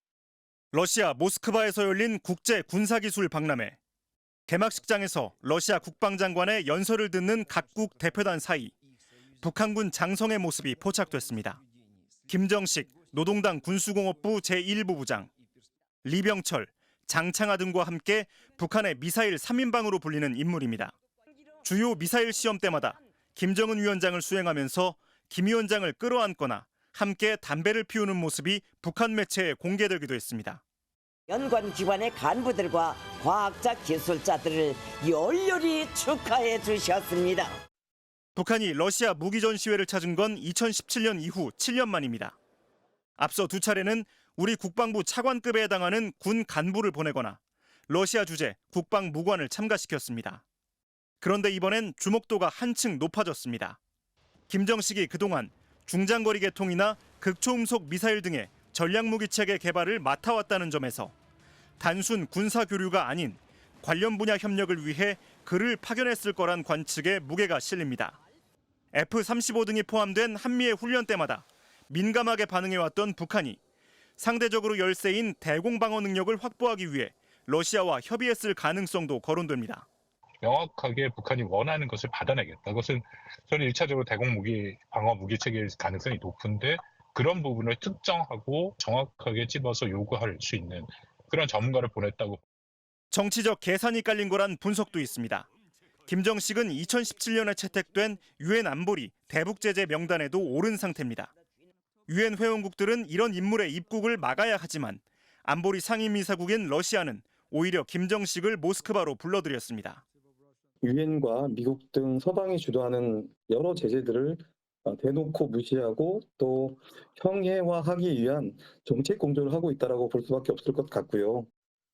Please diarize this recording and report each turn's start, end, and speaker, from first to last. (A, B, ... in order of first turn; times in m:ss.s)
0:00.7-0:03.8 A
0:04.5-0:08.7 A
0:09.4-0:11.6 A
0:12.3-0:15.3 A
0:16.0-0:20.9 A
0:21.6-0:30.6 A
0:31.3-0:37.6 B
0:38.3-0:42.3 A
0:43.2-0:50.4 A
0:51.2-0:53.8 A
0:54.5-1:01.1 A
1:01.8-1:08.2 A
1:08.9-1:13.6 A
1:14.2-1:19.8 A
1:20.4-1:32.4 C
1:33.1-1:35.5 A
1:36.1-1:41.3 A
1:42.1-1:50.0 A
1:50.8-2:01.5 D